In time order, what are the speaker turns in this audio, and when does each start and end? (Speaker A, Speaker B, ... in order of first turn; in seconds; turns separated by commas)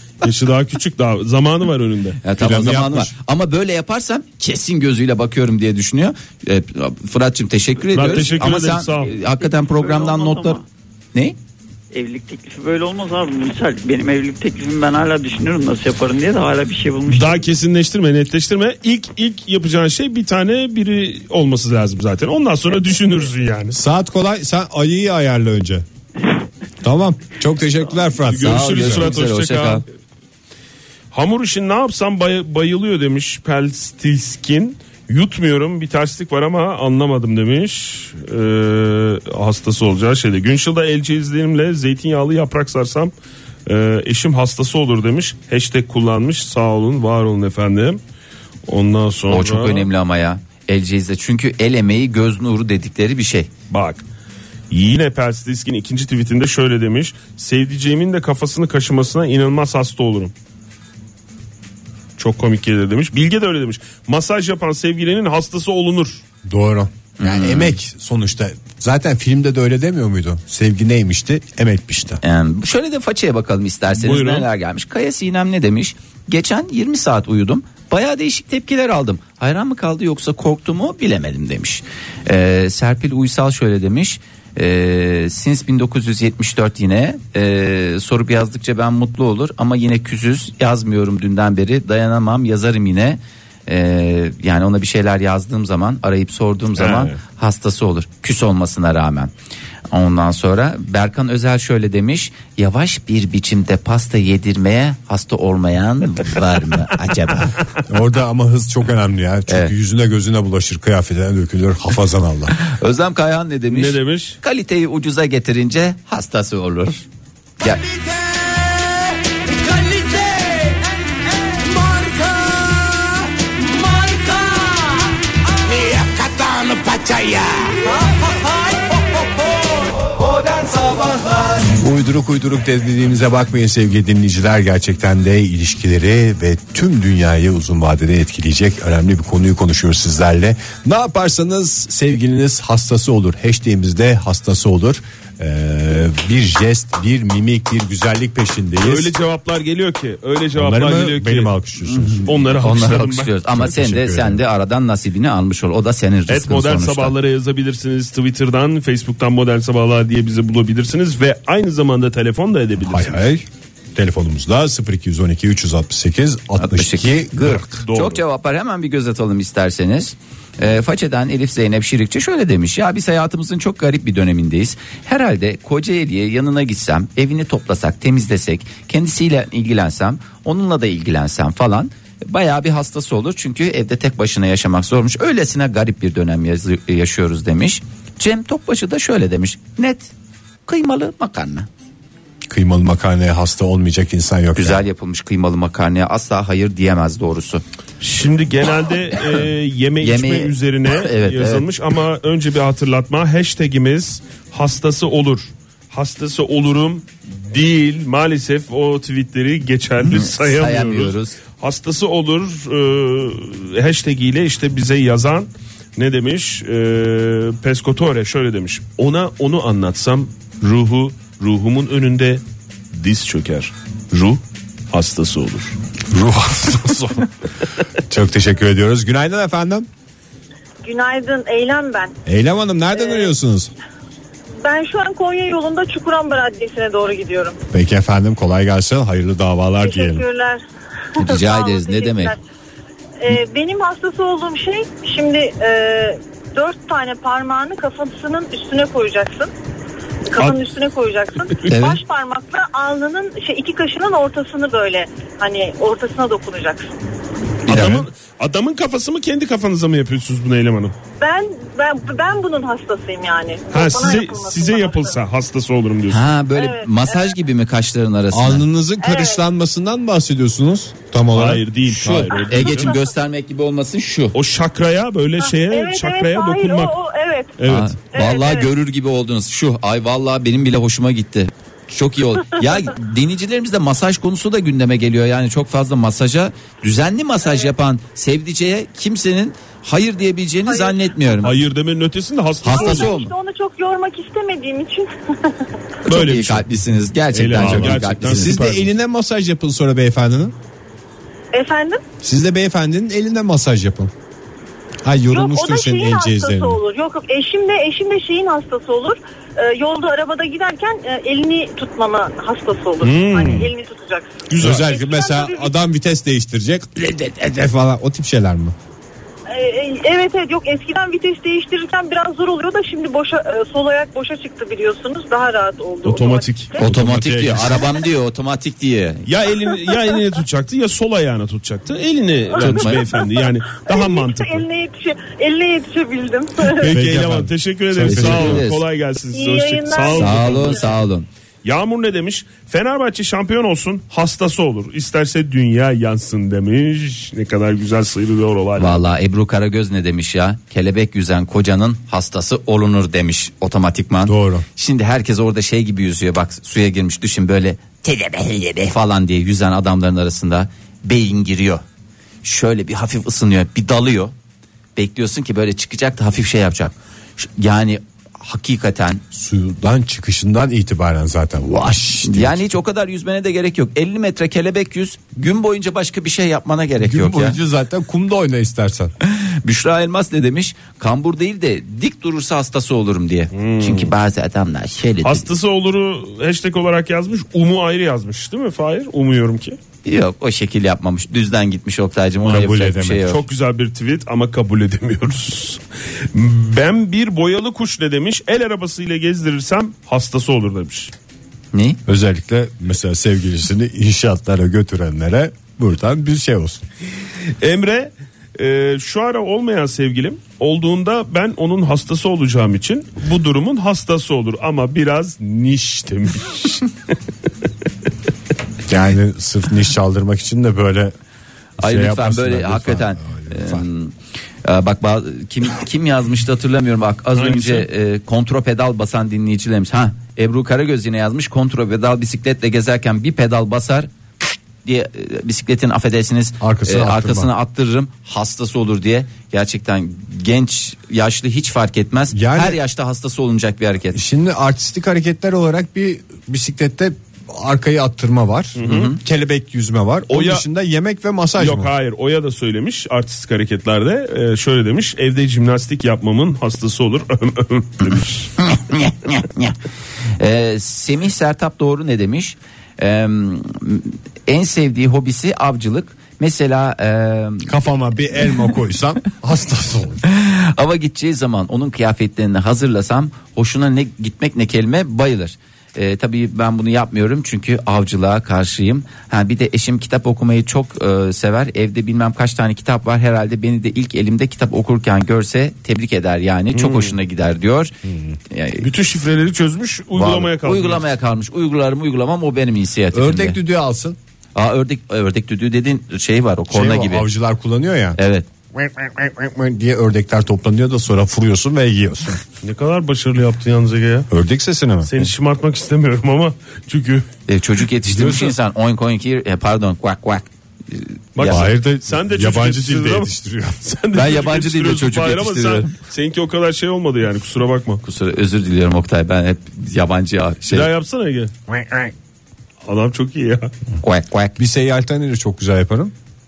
Speaker A: 0.2-2.2, Speaker B: 2.2-10.6, Speaker C: 2.4-3.1, Speaker A: 7.9-9.1, Speaker D: 9.0-10.7, Speaker D: 11.9-17.4, Speaker A: 17.1-23.8, Speaker C: 23.7-25.9, Speaker C: 26.8-29.1, Speaker A: 28.2-29.8, Speaker B: 28.4-29.8, Speaker A: 31.1-43.1, Speaker A: 43.7-48.0, Speaker A: 48.7-49.9, Speaker B: 49.3-53.5, Speaker A: 53.7-54.0, Speaker A: 54.7-60.3, Speaker A: 62.2-66.2, Speaker C: 66.5-72.2, Speaker B: 67.2-67.8, Speaker B: 72.2-99.3, Speaker A: 73.9-74.5, Speaker A: 96.8-97.2, Speaker B: 99.9-107.6, Speaker C: 107.9-112.5, Speaker B: 109.5-109.7, Speaker B: 112.6-117.0, Speaker A: 113.7-114.4, Speaker B: 125.8-127.8, Speaker C: 131.7-149.1, Speaker A: 148.8-151.5, Speaker C: 150.6-152.3, Speaker B: 152.1-157.2, Speaker A: 152.2-153.3, Speaker C: 153.5-154.4, Speaker A: 156.3-163.2, Speaker C: 162.8-167.7, Speaker B: 166.6-190.1, Speaker A: 167.5-168.2, Speaker B: 190.7-191.7, Speaker C: 192.5-194.8, Speaker B: 194.6-197.6, Speaker A: 198.0-222.4, Speaker B: 200.0-201.7, Speaker B: 210.0-211.4, Speaker A: 222.9-225.8, Speaker C: 226.1-227.3, Speaker C: 228.1-229.9, Speaker E: 230.8-232.2, Speaker C: 232.3-233.7, Speaker E: 233.0-233.3, Speaker E: 234.6-237.6, Speaker C: 237.7-240.2, Speaker E: 239.8-240.6, Speaker E: 241.2-242.4, Speaker B: 241.2-242.4, Speaker E: 243.2-249.5, Speaker E: 250.3-257.0, Speaker B: 251.7-252.0, Speaker B: 257.7-258.0, Speaker A: 257.7-260.9, Speaker C: 257.7-258.1, Speaker E: 261.2-265.2, Speaker A: 263.7-266.2, Speaker B: 266.1-268.6, Speaker E: 266.6-267.3, Speaker C: 268.3-271.6, Speaker E: 269.0-269.4, Speaker A: 271.3-272.9, Speaker B: 271.9-274.4, Speaker E: 272.4-273.0, Speaker A: 274.3-276.9, Speaker E: 275.4-277.6, Speaker A: 277.6-278.0, Speaker B: 277.7-291.6, Speaker E: 278.1-278.7, Speaker E: 290.7-291.0, Speaker A: 291.4-293.1, Speaker B: 292.6-293.3, Speaker E: 292.7-295.6, Speaker B: 296.1-298.6, Speaker A: 296.1-296.6, Speaker A: 297.3-298.9, Speaker C: 297.5-300.6, Speaker E: 301.5-302.0, Speaker C: 302.2-304.1, Speaker C: 305.0-306.8, Speaker E: 305.3-315.7, Speaker A: 313.0-313.7, Speaker C: 313.4-313.7, Speaker A: 314.5-314.9, Speaker C: 314.6-318.8, Speaker E: 319.5-326.9, Speaker A: 326.0-326.7, Speaker C: 326.8-328.0, Speaker B: 326.8-329.3, Speaker A: 329.3-334.6, Speaker B: 332.6-333.1, Speaker E: 332.6-337.0, Speaker A: 336.7-341.0, Speaker C: 336.8-338.7, Speaker B: 338.1-338.9, Speaker E: 339.3-340.9, Speaker B: 340.1-341.3, Speaker A: 341.6-349.0, Speaker B: 348.8-361.8, Speaker C: 354.3-354.6, Speaker B: 362.4-364.3, Speaker B: 365.0-369.2, Speaker C: 369.3-372.6, Speaker B: 372.2-377.6, Speaker C: 377.0-379.1, Speaker B: 379.2-385.5, Speaker A: 383.5-384.1, Speaker A: 385.2-389.8, Speaker B: 390.1-393.4, Speaker C: 392.4-393.4, Speaker A: 393.3-395.8, Speaker A: 396.3-401.1, Speaker B: 401.7-402.0, Speaker C: 402.1-406.8, Speaker A: 407.6-416.9, Speaker C: 418.9-421.1, Speaker C: 421.8-423.9, Speaker B: 421.8-434.1, Speaker A: 427.4-427.9, Speaker B: 434.8-444.2, Speaker C: 436.6-437.5, Speaker C: 442.3-442.8, Speaker C: 444.1-451.9, Speaker A: 448.8-449.1, Speaker B: 448.8-449.2, Speaker A: 450.3-450.6, Speaker A: 451.6-458.5, Speaker B: 458.6-459.8, Speaker B: 460.4-467.7, Speaker C: 467.7-470.2, Speaker B: 470.2-487.9, Speaker A: 486.7-487.2, Speaker C: 488.1-488.3, Speaker B: 488.5-488.9, Speaker A: 488.8-491.1, Speaker B: 490.1-493.6, Speaker C: 493.1-494.2, Speaker B: 494.6-497.3, Speaker C: 496.7-498.2, Speaker B: 498.2-498.5, Speaker C: 498.7-502.4, Speaker A: 502.6-504.3, Speaker C: 504.3-505.1, Speaker A: 505.1-507.3, Speaker B: 507.5-511.7, Speaker C: 508.1-508.6, Speaker A: 511.4-518.0, Speaker C: 511.4-513.8, Speaker B: 514.1-515.9, Speaker B: 518.0-520.9, Speaker A: 520.7-521.5, Speaker C: 521.7-522.1, Speaker A: 522.9-523.7, Speaker B: 524.0-524.6, Speaker C: 524.6-526.1